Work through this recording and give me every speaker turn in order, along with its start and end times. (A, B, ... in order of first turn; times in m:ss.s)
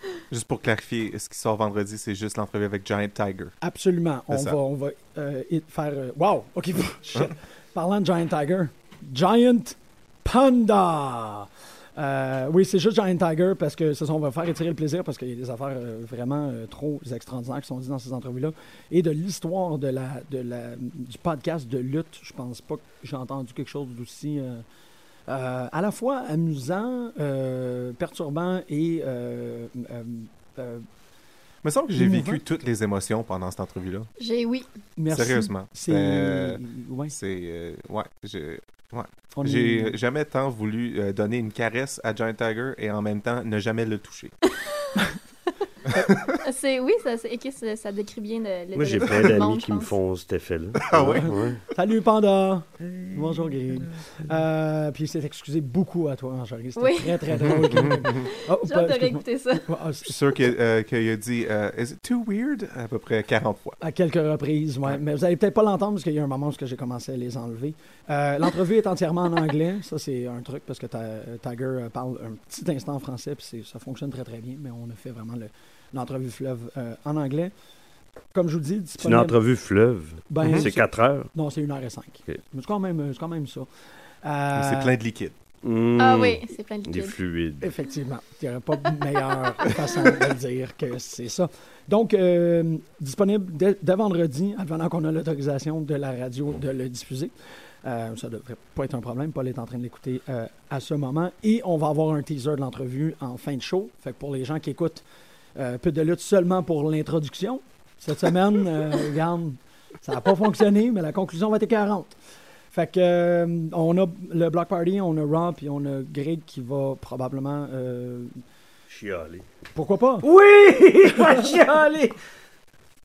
0:00.3-0:03.5 A
0:03.6-0:24.6 B
0:04.3-0:04.6 A
0:25.3-0:30.9 B
0:31.6-0:34.1 A
0:31.9-0:32.4 B
0:34.2-0:34.7 C
0:35.0-0:37.2 B
0:35.1-0:44.4 A
0:39.4-0:40.0 B
0:44.6-0:44.9 C
0:45.9-0:46.4 A
0:46.4-0:49.9 C
0:48.8-0:51.6 D
0:50.9-0:51.3 A
0:50.9-1:00.5 B
0:56.8-0:59.7 C
0:57.3-0:58.2 A
1:00.0-1:03.8 A
1:03.8-1:17.5 B
1:18.3-1:19.4 B
1:19.0-1:21.3 D
1:20.3-1:23.7 B
1:24.2-1:25.0 B
1:24.5-1:25.4 A
1:25.6-1:27.7 D
1:26.0-1:27.2 C
1:27.6-1:45.0 B
1:45.6-1:52.1 B
1:52.7-1:58.4 B
1:58.9-1:59.5 D
1:59.7-2:00.3 B
2:00.2-2:02.2 D
2:01.1-2:01.6 B